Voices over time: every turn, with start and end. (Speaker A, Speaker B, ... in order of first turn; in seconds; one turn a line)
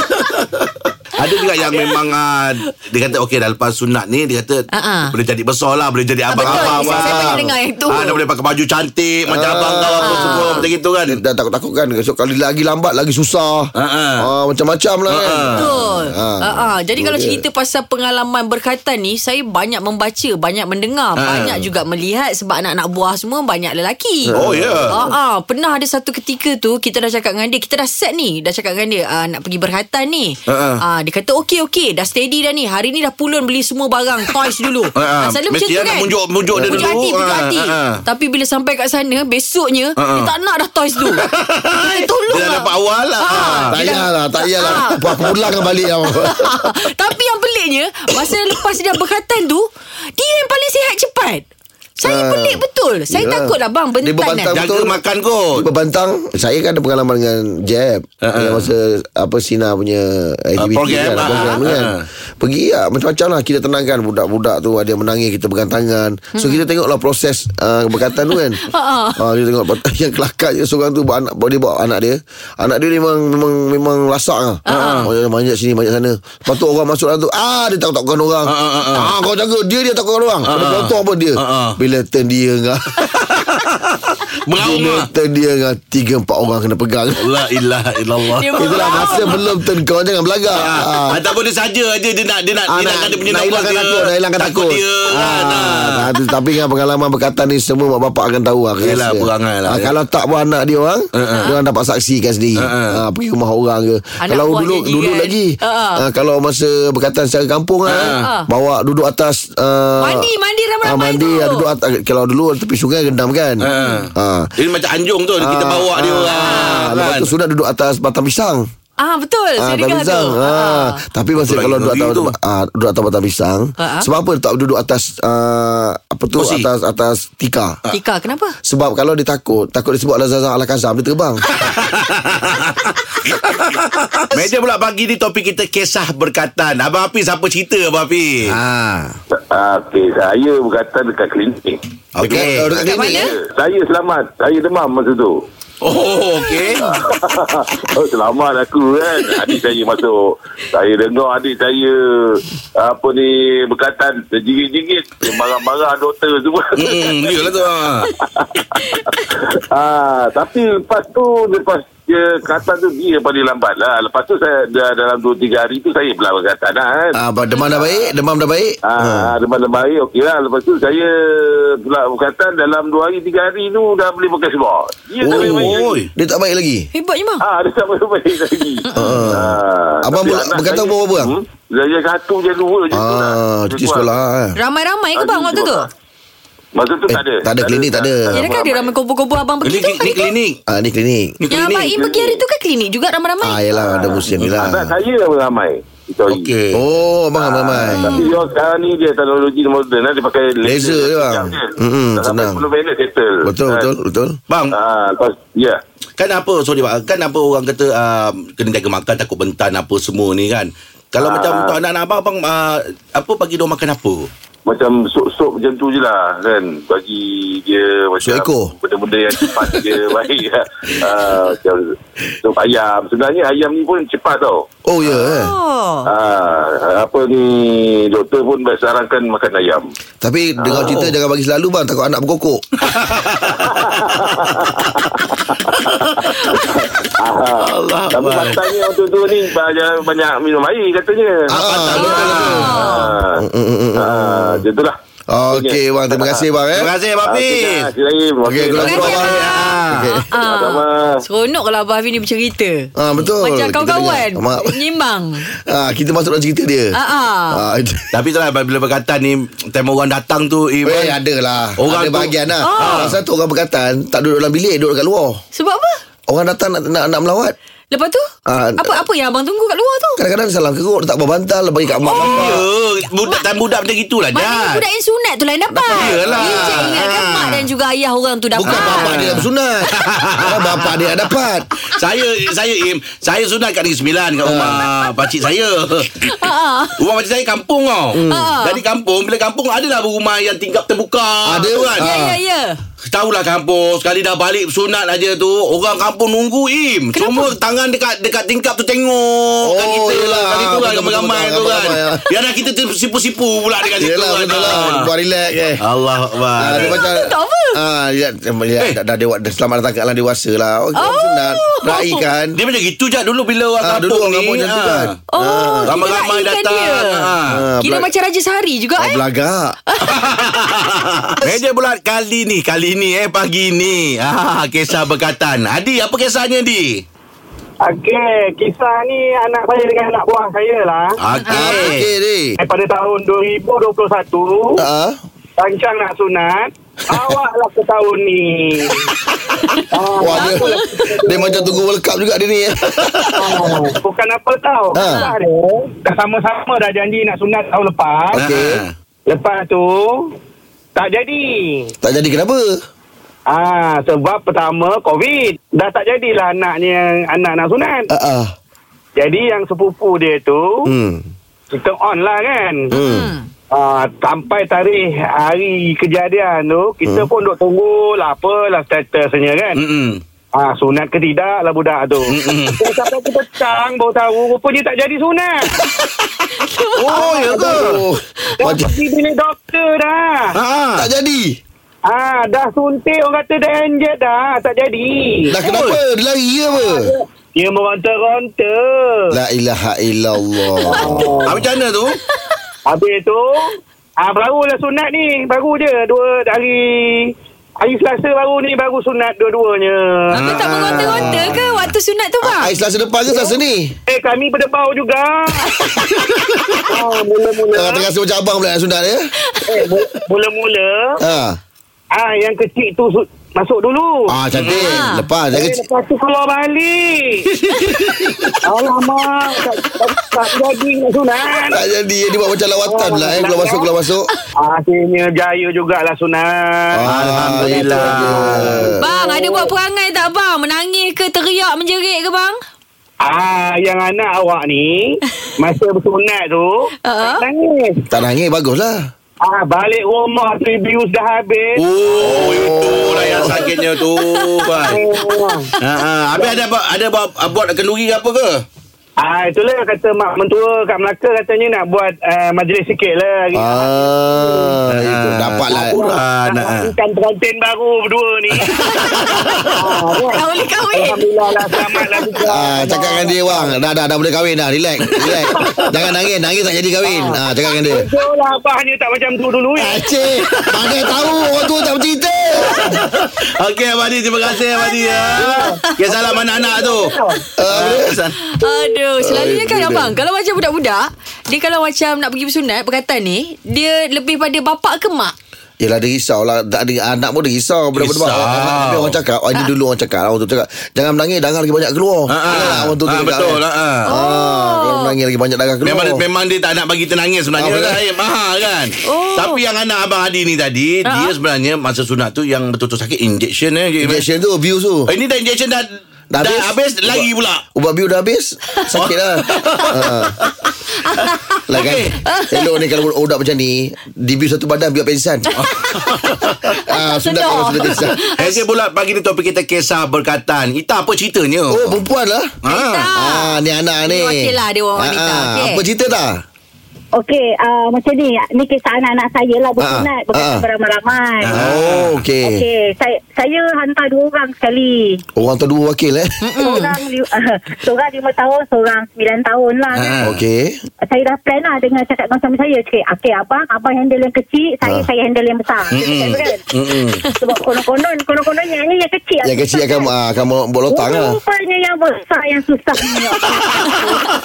Speaker A: 0.2-0.5
Speaker A: 1.2-11.2
Speaker B: 1.6-1.9
Speaker B: 4.7-5.1
Speaker B: 6.3-8.2
Speaker C: 6.4-7.5
Speaker C: 9.3-17.4
Speaker B: 10.0-10.6
Speaker A: 13.8-14.3
Speaker A: 15.1-15.7
Speaker B: 15.6-24.4
Speaker A: 21.2-21.6
Speaker C: 24.3-25.0
Speaker A: 24.4-25.0
Speaker B: 24.9-36.1
Speaker A: 30.5-30.8
Speaker A: 35.0-38.0
Speaker C: 36.5-37.0
Speaker B: 36.7-41.2
Speaker A: 40.0-40.3
Speaker A: 41.1-43.8
Speaker B: 41.8-42.7
Speaker B: 43.2-45.3
Speaker C: 43.7-46.7
Speaker B: 46.1-51.5
Speaker B: 52.0-54.5
Speaker C: 52.0-55.0
Speaker A: 54.5-55.7
Speaker C: 55.5-68.6
Speaker A: 58.2-58.7
Speaker A: 60.6-62.1
Speaker B: 66.3-66.6
Speaker B: 68.6-69.2
Speaker C: 69.2-83.0
Speaker B: 74.7-75.1
Speaker A: 74.8-75.1
Speaker A: 78.5-79.1
Speaker A: 80.5-81.8
Speaker A: 83.0-85.1
Speaker C: 84.6-87.3
Speaker A: 87.2-89.3
Speaker B: 88.4-89.4
Speaker C: 88.6-91.2
Speaker A: 90.6-96.0
Speaker C: 92.7-110.3
Speaker A: 98.8-99.9
Speaker A: 101.2-101.5
Speaker A: 102.6-103.0
Speaker B: 104.2-106.0
Speaker A: 107.9-108.3
Speaker B: 108.2-108.5
Speaker B: 110.0-111.7
Speaker C: 110.8-114.5
Speaker A: 113.6-117.3
Speaker B: 113.8-114.0
Speaker C: 115.4-118.7
Speaker B: 116.4-116.9
Speaker B: 119.0-121.0
Speaker C: 119.6-127.8
Speaker A: 121.4-122.3
Speaker B: 123.8-124.1
Speaker A: 126.4-126.7
Speaker B: 127.9-128.6
Speaker C: 128.6-131.5
Speaker A: 131.5-138.6
Speaker C: 138.4-139.2
Speaker D: 139.3-142.5
Speaker A: 142.2-142.7
Speaker C: 142.2-143.3
Speaker B: 142.8-143.3
Speaker D: 143.0-145.4
Speaker A: 145.8-146.8
Speaker B: 146.4-146.8
Speaker D: 146.9-168.0
Speaker A: 156.8-158.1
Speaker B: 158.8-159.3
Speaker C: 167.2-169.3
Speaker D: 168.8-176.0
Speaker C: 175.2-176.9
Speaker A: 175.2-176.1
Speaker B: 176.9-177.4
Speaker D: 177.4-184.2
Speaker B: 178.9-179.3
Speaker C: 178.9-181.3
Speaker C: 182.9-184.6
Speaker B: 184.6-185.9
Speaker D: 185.2-185.9
Speaker D: 186.8-188.9
Speaker C: 187.1-188.4
Speaker B: 188.3-190.3
Speaker A: 189.6-190.6
Speaker C: 190.7-191.4
Speaker A: 191.4-191.9
Speaker B: 191.5-193.6
Speaker D: 191.9-192.4
Speaker C: 193.4-194.9
Speaker D: 193.7-196.5
Speaker A: 196.3-196.8
Speaker C: 196.7-198.2
Speaker D: 197.4-203.9
Speaker B: 197.9-198.4
Speaker C: 200.6-202.7
Speaker C: 203.4-204.4
Speaker A: 204.5-204.8
Speaker D: 204.7-205.8
Speaker A: 206.2-214.3
Speaker D: 211.2-211.8
Speaker D: 214.7-224.7
Speaker C: 218.2-218.7
Speaker C: 219.5-220.0
Speaker C: 224.9-225.5
Speaker B: 225.1-226.1
Speaker D: 226.1-229.8
Speaker C: 230.2-232.7
Speaker A: 230.7-231.2
Speaker A: 232.8-235.2
Speaker D: 233.6-243.4
Speaker A: 235.8-236.8
Speaker B: 236.3-236.6
Speaker A: 237.6-238.8
Speaker C: 241.5-244.7
Speaker A: 241.6-242.9
Speaker B: 242.0-243.2
Speaker D: 243.9-244.9
Speaker C: 245.3-246.9
Speaker D: 245.5-246.4
Speaker A: 246.8-247.9
Speaker D: 247.2-249.3
Speaker C: 248.4-250.3
Speaker B: 248.8-252.9
Speaker A: 249.1-250.1
Speaker D: 250.4-251.2
Speaker C: 253.0-254.8
Speaker B: 253.4-255.4
Speaker C: 255.5-256.9
Speaker B: 256.9-257.6
Speaker C: 257.5-258.1
Speaker A: 258.1-261.2
Speaker C: 260.9-265.4
Speaker A: 261.8-263.2
Speaker B: 262.6-263.1
Speaker B: 265.6-266.0
Speaker C: 266.3-267.6
Speaker B: 267.9-268.3
Speaker C: 268.5-269.0
Speaker B: 268.8-270.2
Speaker C: 270.2-272.6
Speaker B: 272.1-272.5
Speaker A: 272.1-274.8
Speaker B: 274.4-279.4
Speaker C: 275.7-277.0
Speaker A: 275.9-277.6
Speaker C: 278.6-281.7
Speaker A: 278.7-281.0
Speaker A: 281.9-286.4
Speaker C: 284.4-284.9
Speaker B: 286.2-287.0
Speaker A: 287.0-292.1
Speaker C: 288.1-288.5
Speaker B: 288.3-288.8
Speaker C: 291.5-292.4
Speaker B: 292.0-292.8
Speaker A: 293.1-305.1
Speaker B: 297.1-297.5
Speaker C: 299.6-302.2
Speaker C: 304.0-305.8
Speaker A: 305.8-307.0
Speaker C: 306.6-312.6
Speaker B: 306.8-307.8
Speaker B: 310.9-312.2
Speaker A: 312.6-315.1
Speaker C: 313.8-315.9
Speaker B: 315.3-319.2
Speaker A: 315.9-317.6
Speaker C: 317.5-318.1
Speaker C: 319.0-319.8
Speaker B: 319.9-320.2
Speaker A: 320.1-327.0
Speaker E: 327.8-331.2
Speaker A: 331.2-332.1
Speaker B: 331.4-331.9
Speaker C: 331.5-332.6
Speaker E: 332.6-334.8
Speaker C: 334.8-335.2
Speaker E: 335.6-339.1
Speaker E: 339.9-341.8
Speaker C: 340.2-343.0
Speaker B: 340.4-341.1
Speaker A: 342.9-343.3
Speaker E: 343.4-348.4
Speaker C: 344.9-345.2
Speaker B: 345.0-345.3
Speaker C: 348.3-348.8
Speaker A: 348.4-348.9
Speaker E: 349.3-350.3
Speaker E: 351.0-351.9
Speaker C: 352.0-352.7
Speaker E: 353.5-358.1
Speaker C: 358.1-358.5
Speaker E: 359.2-360.9
Speaker C: 360.9-361.3
Speaker E: 361.7-362.9
Speaker C: 362.9-363.3
Speaker B: 362.9-363.5
Speaker E: 363.7-369.8
Speaker A: 369.8-370.2
Speaker E: 370.6-375.7
Speaker A: 372.3-372.8
Speaker B: 376.5-377.7
Speaker A: 377.0-378.0
Speaker C: 377.3-378.9
Speaker E: 378.6-380.6
Speaker A: 380.5-381.1
Speaker C: 381.0-381.6
Speaker E: 382.1-385.6
Speaker C: 385.5-387.1
Speaker A: 385.6-386.0
Speaker E: 386.8-389.3
Speaker C: 389.3-391.6
Speaker B: 390.8-391.0
Speaker E: 390.9-391.6
Speaker A: 391.4-392.2
Speaker E: 392.9-401.0
Speaker B: 400.3-402.7
Speaker A: 400.4-401.6
Speaker C: 401.0-401.6
Speaker C: 402.4-403.9
Speaker E: 404.1-405.8
Speaker A: 406.5-406.8
Speaker E: 406.9-408.1
Speaker C: 407.7-409.3
Speaker E: 409.7-411.2
Speaker C: 411.2-411.6
Speaker E: 412.1-414.3
Speaker C: 414.3-415.8
Speaker A: 414.6-415.0
Speaker B: 414.7-415.3
Speaker E: 415.5-417.5
Speaker A: 417.5-418.6
Speaker E: 418.6-421.8
Speaker C: 421.7-424.3
Speaker E: 422.9-423.9
Speaker E: 424.6-429.7
Speaker C: 427.0-428.9
Speaker A: 427.1-428.9
Speaker B: 429.0-432.6
Speaker E: 433.2-438.1
Speaker B: 437.1-437.4
Speaker C: 438.1-439.0
Speaker E: 439.4-441.8
Speaker A: 441.8-445.0
Speaker C: 442.2-443.6
Speaker E: 443.2-443.6
Speaker B: 444.2-444.6
Speaker E: 444.8-445.7
Speaker A: 445.8-448.6
Speaker E: 446.4-446.6
Speaker E: 449.2-454.8
Speaker C: 453.6-456.0
Speaker A: 454.9-456.9
Speaker E: 455.7-458.8
Speaker B: 458.8-459.3
Speaker A: 458.9-459.7
Speaker E: 459.7-463.8
Speaker B: 460.3-461.2
Speaker C: 462.5-468.1
Speaker A: 465.3-465.8
Speaker E: 465.5-466.0
Speaker E: 467.1-470.0
Speaker C: 469.8-473.0
Speaker A: 470.6-471.3
Speaker E: 472.6-473.1
Speaker A: 472.8-477.2
Speaker B: 474.7-475.9
Speaker E: 475.3-477.4
Speaker C: 477.6-478.2
Speaker A: 477.7-478.4
Speaker B: 478.4-485.3
Speaker C: 479.2-480.2
Speaker C: 485.8-496.2
Speaker A: 488.0-489.2
Speaker A: 492.3-494.1
Speaker B: 494.1-495.1
Speaker A: 495.8-504.2
Speaker C: 497.6-498.0
Speaker B: 499.1-499.6
Speaker B: 501.1-501.3
Speaker C: 504.0-505.1
Speaker A: 505.1-507.6
Speaker C: 506.3-510.4
Speaker A: 508.9-510.7
Speaker B: 511.0-511.6
Speaker A: 511.3-512.2
Speaker C: 511.7-515.5
Speaker B: 512.3-512.8
Speaker A: 515.6-516.6
Speaker B: 515.6-518.6
Speaker C: 516.7-518.2
Speaker A: 518.4-522.0
Speaker C: 521.7-522.5
Speaker A: 522.6-523.1
Speaker B: 522.7-525.8
Speaker C: 523.1-526.4
Speaker F: 527.2-531.6
Speaker C: 529.8-530.6
Speaker A: 531.4-532.2
Speaker C: 531.5-532.6
Speaker F: 532.4-535.2
Speaker C: 535.4-536.4
Speaker B: 536.4-536.9
Speaker F: 536.6-540.2
Speaker A: 539.9-540.4
Speaker C: 540.2-540.8
Speaker F: 541.0-546.6
Speaker A: 545.9-547.2
Speaker F: 547.4-550.1
Speaker C: 549.4-551.4
Speaker F: 550.9-554.3